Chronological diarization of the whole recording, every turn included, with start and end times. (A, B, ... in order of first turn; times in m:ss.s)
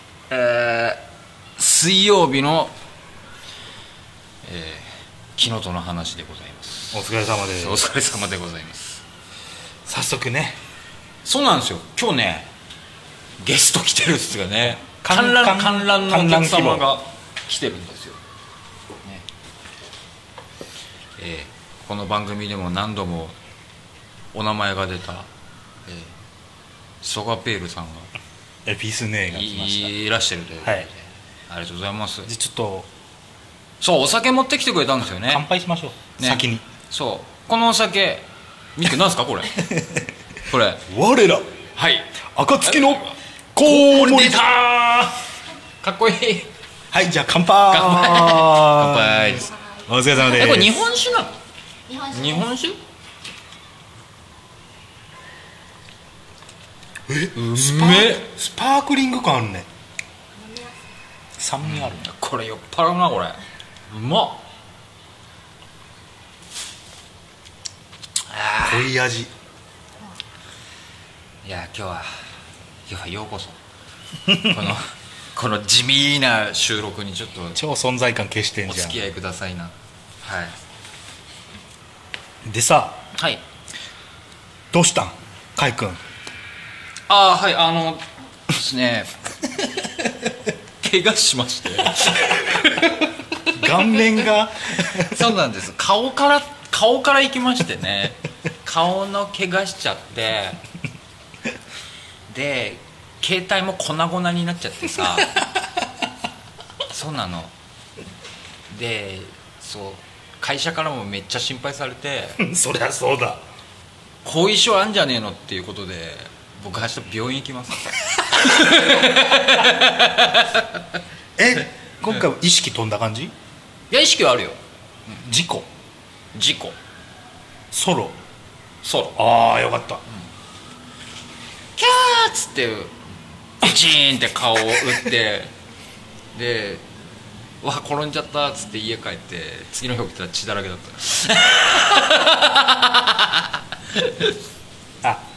0:00.3-0:01.0 A
0:01.6-0:02.7 A
0:04.4-0:09.0 A
0:06.9-0:07.8 B
0:09.8-0:10.6 B
0:11.2-0:12.5 A
0:13.4-0:18.2 A
0:14.8-0:16.9 B
0:21.2-0:23.4 A
0:24.3-0:25.3 A
0:25.8-0:26.1 A
0:27.0-0:28.1 A
0:28.6-0:29.9 B
0:29.3-0:32.3 A
0:32.2-0:32.9 B
0:33.8-0:35.4 A
0:35.1-0:36.6 B
0:36.2-0:39.6 A
0:39.6-0:40.1 B
0:40.5-0:40.8 A
0:40.9-0:41.5 B
0:41.8-0:44.4 A
0:42.3-0:45.2 B
0:45.8-0:46.5 A
0:46.9-0:50.8 B
0:47.7-0:49.5 A
0:49.5-0:51.2 C
0:50.2-0:51.3 A
0:51.9-0:52.6 C
0:52.1-0:52.8 A
0:57.1-0:59.7 B
0:57.3-0:58.3 A
1:00.3-1:00.9 C
1:01.4-1:02.0 B
1:01.6-1:04.4 A
1:08.2-1:08.9 A
1:08.6-1:09.3 B
1:11.4-1:12.2 A
1:12.9-1:13.6 A
1:14.3-1:14.7 B
1:14.3-1:17.6 A
1:17.5-1:19.0 B
1:18.6-1:20.6 A
1:22.4-1:23.0 B
1:23.1-1:23.4 A
1:24.7-1:26.0 B
1:27.1-1:30.1 A
1:30.8-1:33.9 A
1:33.5-1:35.2 B
1:34.7-1:40.6 A
1:42.3-1:45.3 A
1:46.9-1:47.5 A
1:48.7-1:52.4 A
1:52.4-1:53.4 B
1:54.2-2:00.8 A
2:01.4-2:03.3 B
2:03.9-2:04.6 A
2:05.1-2:05.7 B
2:06.3-2:06.8 A
2:07.7-2:08.2 B
2:08.8-2:09.2 A
2:09.2-2:10.0 B
2:11.8-2:13.0 A
2:13.6-2:15.5 A
2:16.3-2:16.8 A
2:17.6-2:24.4 A